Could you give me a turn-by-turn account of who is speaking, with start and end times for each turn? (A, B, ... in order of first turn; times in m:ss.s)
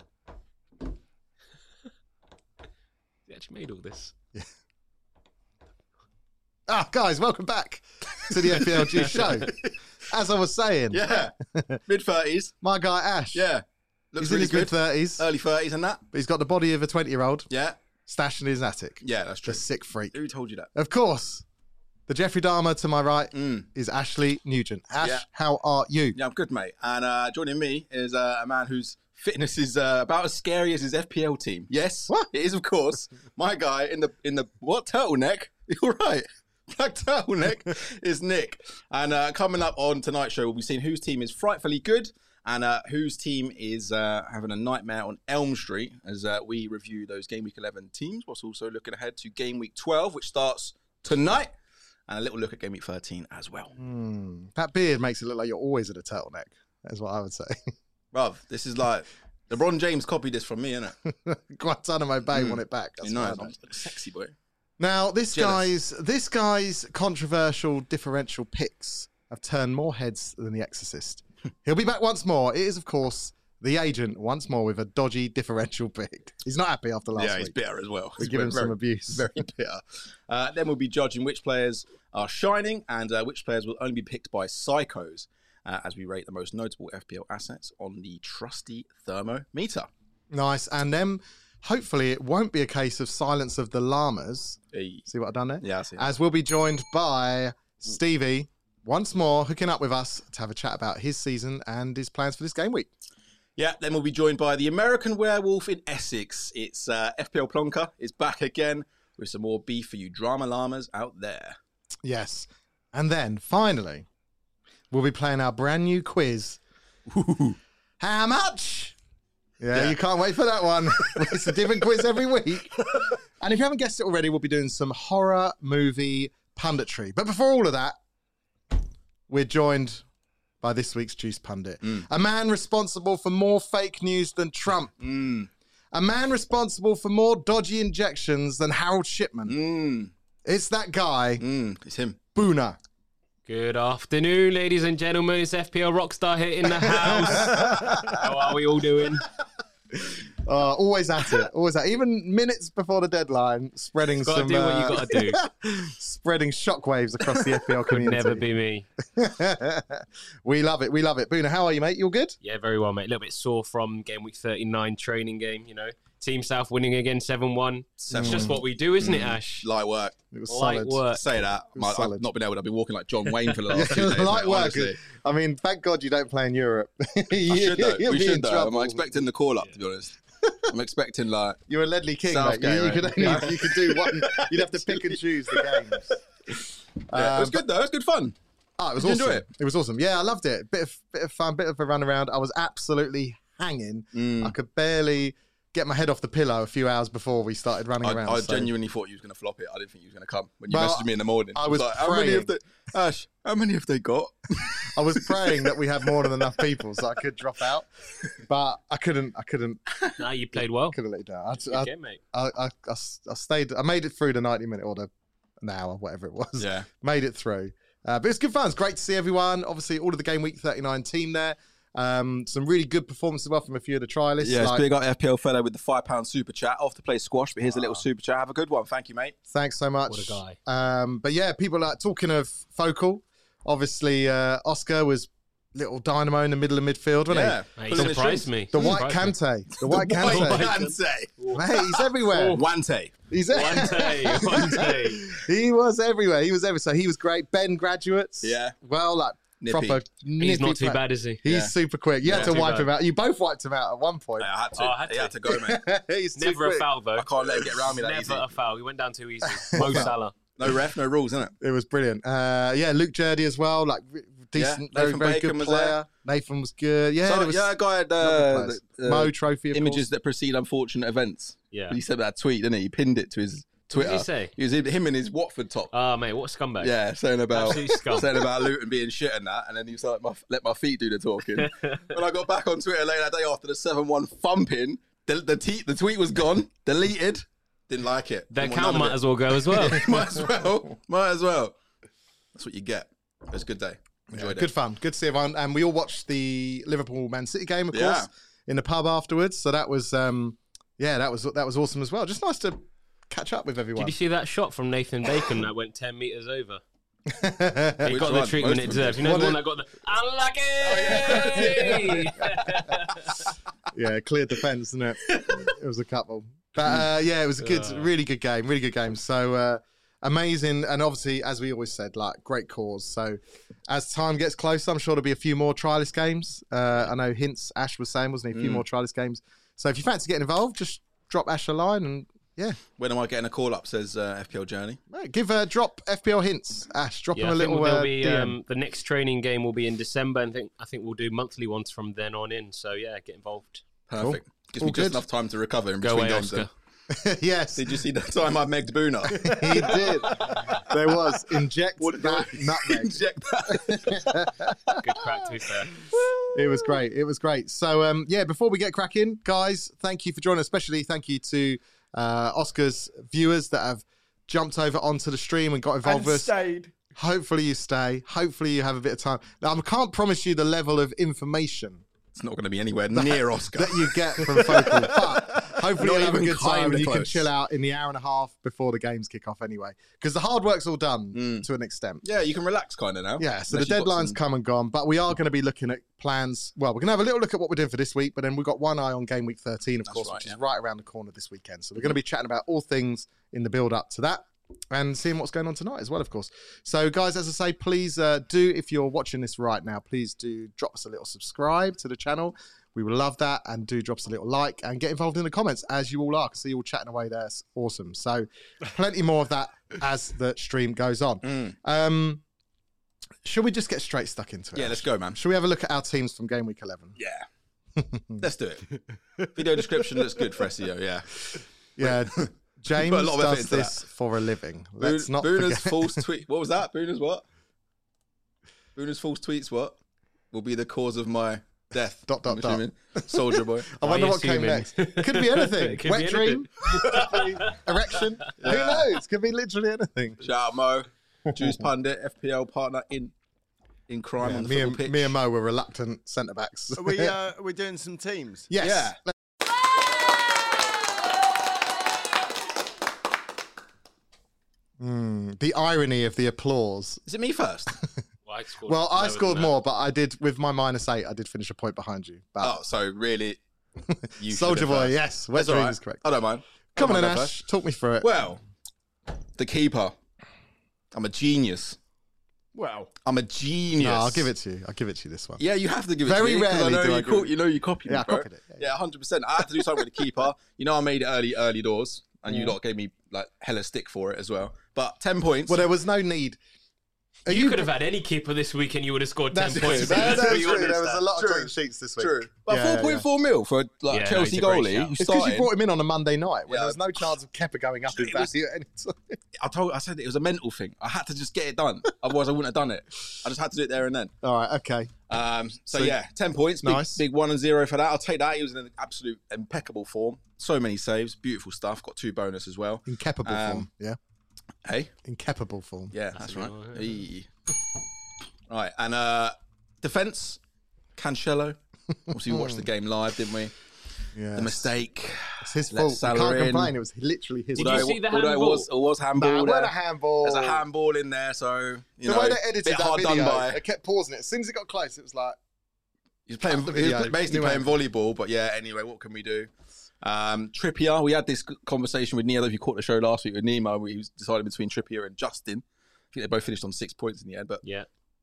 0:03.3-0:04.1 A
0:06.7-0:11.8 B
0:09.1-0:09.7 C
0:10.9-0:11.3 C
0:11.9-0:12.6 C
0:12.6-0:13.5 B
0:13.3-0:16.0 C
0:14.2-0:15.3 B
0:16.1-0:17.5 B
0:17.5-0:17.8 C
0:18.1-0:20.2 B
0:19.0-0:20.7 C
0:20.7-0:21.4 B
0:22.1-0:26.2 B
0:23.4-0:23.7 C
0:25.0-0:25.3 C
0:26.2-0:51.5 C
0:52.1-0:53.7 C
0:53.8-0:57.7 B
0:58.1-1:01.0 C
1:01.0-1:03.6 B
1:02.3-1:04.3 C
1:04.8-1:17.6 B
1:05.3-1:05.7 C
1:17.2-1:29.9 C
1:18.2-1:19.4 B
1:30.3-1:42.9 B
1:34.7-1:35.0 C
1:35.6-1:36.1 C
1:43.6-1:51.6 C
1:52.0-1:54.1 B
1:54.9-1:56.6 B
1:57.1-1:57.6 C
1:58.0-1:59.0 B
1:59.6-2:08.0 B
2:01.0-2:01.7 C
2:09.3-2:10.0 B
2:10.6-2:15.0 B
2:15.0-2:15.5 C
2:15.9-2:19.6 B
2:19.5-2:20.1 C
2:20.4-2:21.4 B
2:21.4-2:22.2 C
2:22.4-2:22.8 B
2:23.5-2:29.2 A
2:26.8-2:28.2 B
2:30.4-2:38.5 B
2:34.2-2:35.4 A
2:37.9-2:38.9 A
2:39.1-2:42.4 B
2:42.4-2:49.7 A
2:48.0-2:50.2 C
2:48.2-2:48.6 B
2:50.3-2:51.0 B
2:50.5-2:51.2 A
2:51.1-2:55.0 C
2:51.8-2:52.3 B
2:53.7-2:59.2 B
2:57.5-3:00.2 C
3:00.7-3:01.6 C
3:01.7-3:06.2 B
3:02.3-3:06.0 C
3:07.1-3:07.6 B
3:07.1-3:08.4 C
3:08.8-3:18.7 B
3:09.0-3:09.5 C
3:14.1-3:14.6 C
3:18.0-3:25.7 C
3:20.7-3:22.5 B
3:24.8-3:29.8 B
3:26.2-3:26.8 C
3:30.2-3:31.0 A
3:30.6-3:35.1 B
3:31.6-3:32.2 A
3:35.6-3:44.8 B
3:36.6-3:36.9 C
3:44.4-3:49.4 C
3:47.6-3:48.0 B
3:49.5-3:57.6 B
3:50.1-3:50.6 A
3:57.3-3:59.0 C
3:57.8-3:59.3 A
3:58.7-4:00.7 B
3:59.8-4:03.2 C
4:00.2-4:02.6 A
4:01.5-4:02.6 B
4:03.3-4:14.5 B
4:03.5-4:05.3 A
4:08.4-4:08.8 C
4:09.6-4:10.0 C
4:10.4-4:11.4 A
4:11.5-4:11.7 C
4:12.2-4:12.9 A
4:12.3-4:12.6 C
4:14.4-4:15.8 C
4:14.8-4:15.4 A
4:15.5-4:16.9 B
4:16.4-4:17.3 A
4:17.2-4:18.5 C
4:17.8-4:20.3 A
4:19.7-4:20.1 B
4:19.8-4:21.6 C
4:21.6-4:30.1 B
4:24.6-4:26.0 C
4:27.2-4:35.9 C
4:31.7-4:32.0 A
4:33.9-4:34.5 A
4:35.9-4:36.9 A
4:36.8-4:51.8 C
4:37.5-4:38.4 A
4:41.6-4:42.1 A
4:48.5-4:50.0 A
4:52.6-4:54.7 C
4:54.3-5:04.2 B
4:57.9-4:58.3 C
5:04.0-5:06.8 A
5:07.3-5:08.2 B
5:08.0-5:13.5 A
5:08.0-5:09.6 C
5:10.8-5:12.3 C
5:11.3-5:11.8 B
5:13.9-5:32.8 B
5:17.6-5:18.1 A
5:28.5-5:28.8 C
5:33.0-5:35.0 C
5:35.1-5:38.6 B
5:37.4-5:43.8 A
5:44.1-5:46.7 C
5:44.2-5:45.2 B
5:46.0-5:46.7 A
5:47.1-5:48.0 B
5:47.8-5:51.4 C
5:49.2-5:55.0 B
5:50.4-5:50.7 A
5:52.0-5:55.0 C
5:55.0-5:55.9 A
5:55.9-5:56.8 C
5:56.5-6:06.5 B
6:06.0-6:06.9 D
6:07.2-6:12.0 B
6:12.4-6:17.5 C
6:13.1-6:22.2 B
6:21.3-6:21.7 C
6:22.2-6:24.4 C
6:23.4-6:52.4 B
6:30.1-6:30.6 C
6:51.4-6:51.8 C
6:53.4-6:57.2 B
6:54.8-6:55.4 C
6:57.2-6:57.4 C
6:58.0-6:58.5 B
6:58.4-6:58.9 C
6:59.6-7:04.0 C
7:02.0-7:06.2 B
7:05.0-7:07.4 C
7:09.0-7:10.0 C
7:10.5-7:13.9 C
7:12.3-7:20.5 B
7:14.0-7:18.2 A
7:18.6-7:19.1 C
7:20.4-7:23.3 C
7:24.1-7:25.4 C
7:24.4-7:27.3 B
7:27.0-7:28.7 D
7:28.7-7:29.3 B
7:28.8-7:29.2 C
7:35.0-7:37.2 B
7:37.3-7:38.0 C
7:38.4-7:39.7 A
7:38.9-7:42.8 B
7:42.6-7:43.6 C
7:44.1-7:46.2 B
7:44.4-7:47.6 C
7:47.0-7:48.3 B
7:48.2-7:48.6 C
7:49.6-7:50.2 C
7:51.1-7:52.0 C
7:52.8-7:53.1 D
7:53.2-7:54.5 C
7:54.0-7:55.6 B
7:55.6-8:05.9 C
7:56.2-7:57.6 B
7:58.1-7:58.9 B
8:02.5-8:02.8 B
8:05.7-8:06.6 B
8:07.4-8:07.9 B
8:07.5-8:11.2 A
8:09.5-8:13.3 B
8:09.7-8:15.7 C
8:14.1-8:15.1 A
8:15.1-8:19.4 B
8:16.7-8:17.2 C
8:18.1-8:18.5 C
8:19.6-8:24.3 C
8:24.4-8:25.1 B
8:25.3-8:33.9 C
8:26.8-8:27.2 B
8:33.1-8:34.2 B
8:34.8-8:35.1 C
8:35.2-8:36.1 B
8:36.1-8:37.5 C
8:36.4-8:37.2 A
8:38.7-8:40.6 C
8:41.2-8:41.8 C
8:42.3-8:43.8 C
8:42.3-8:42.9 B
8:44.4-8:44.9 B
8:44.6-8:46.9 C
8:45.6-8:48.2 B
8:47.8-8:48.9 A
8:47.8-8:53.8 C
8:49.4-8:50.8 B
8:52.2-8:55.6 B
8:56.5-8:59.7 C
8:56.6-8:58.0 B
9:00.2-9:07.8 C